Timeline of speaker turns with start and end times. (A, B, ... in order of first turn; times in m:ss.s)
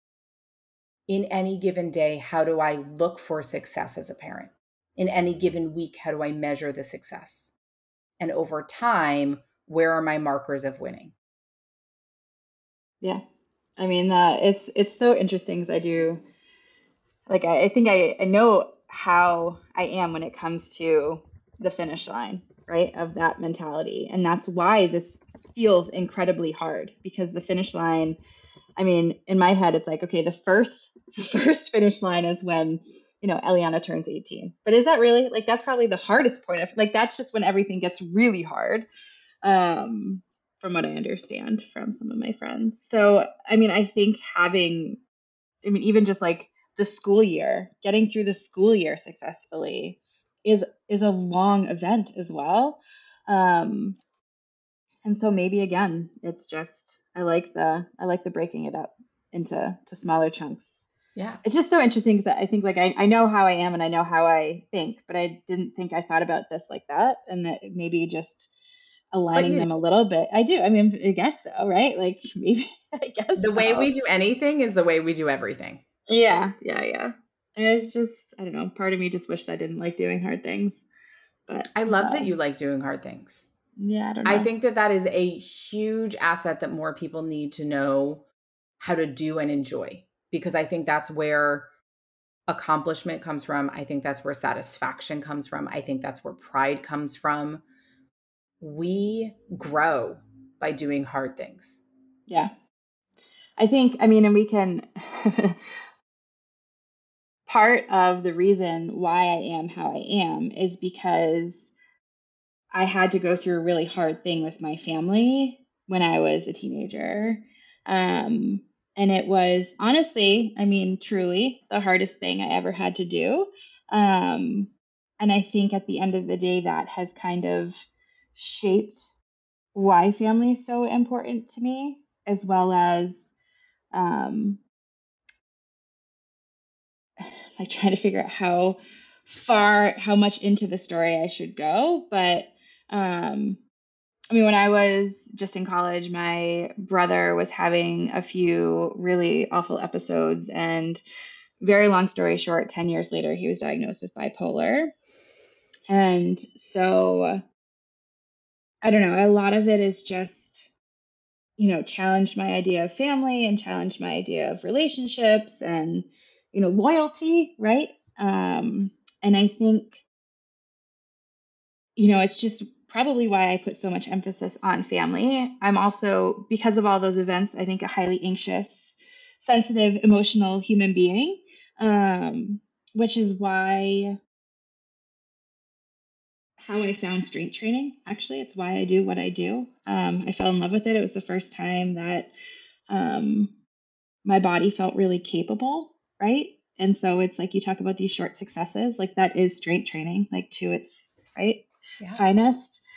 0:01.1-0:07.5 A
0:08.2-0:11.1 A
0:13.8-0:16.3 B
0:17.3-0:28.2 B
0:28.8-0:38.9 B
0:39.4-0:45.0 B
0:45.6-0:54.0 B
0:55.0-1:00.9 B
1:01.2-1:01.4 A
1:01.4-1:08.5 B
1:09.1-1:14.1 B
1:09.4-1:09.7 A
1:13.4-1:15.8 A
1:16.1-1:20.9 B
1:21.5-1:22.3 B
1:21.7-1:23.5 A
1:23.8-1:24.5 B
1:24.2-1:28.2 A
1:28.8-1:31.7 A
1:32.5-1:37.6 A
1:38.6-1:41.8 A
1:43.6-1:45.6 B
1:47.5-1:51.7 B
1:52.7-2:09.1 B
2:09.8-2:13.3 B
2:13.9-2:14.6 B
2:17.2-2:23.6 B
2:24.3-2:31.0 B
2:31.6-2:34.9 B
2:35.9-2:37.4 B
2:38.8-2:40.7 B
2:41.6-2:50.0 B
2:52.0-3:04.2 B
3:06.6-3:12.3 B
3:12.9-3:13.6 B
3:14.2-3:22.8 B